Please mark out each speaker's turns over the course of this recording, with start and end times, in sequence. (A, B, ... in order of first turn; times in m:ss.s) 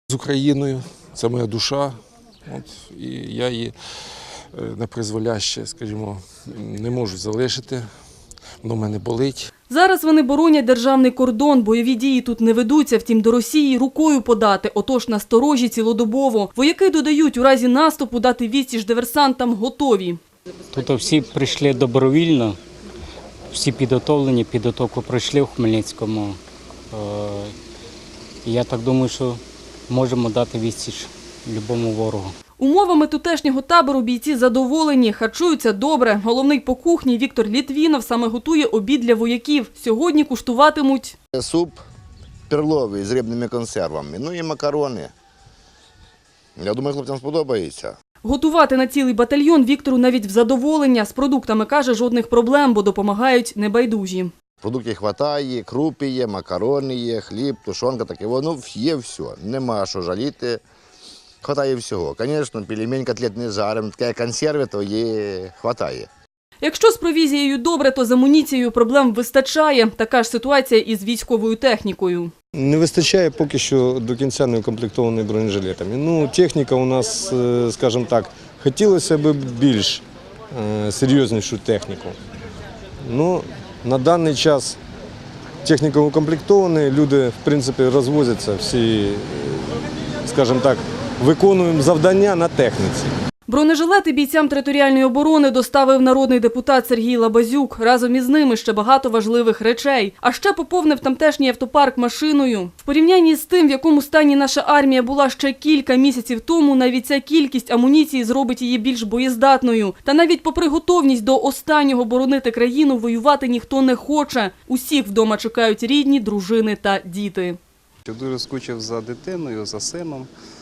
0:00.1-0:02.0 A
0:02.5-0:03.7 A
0:04.5-0:07.9 A
0:08.6-0:09.5 A
0:09.7-0:20.2 B
0:20.7-0:22.6 C
0:23.5-0:26.4 C
0:26.9-0:27.6 C
0:28.4-0:32.4 C
0:32.6-0:41.2 B
0:41.3-0:41.8 D
0:42.5-0:45.1 D
0:46.6-0:48.0 D
0:48.2-0:54.3 B
0:54.6-1:00.6 D
1:01.4-1:06.1 D
1:06.6-1:12.3 B
1:12.6-1:22.2 E
1:23.0-1:24.8 E
1:25.6-1:33.1 E
1:33.5-1:57.6 B
1:58.1-2:00.3 F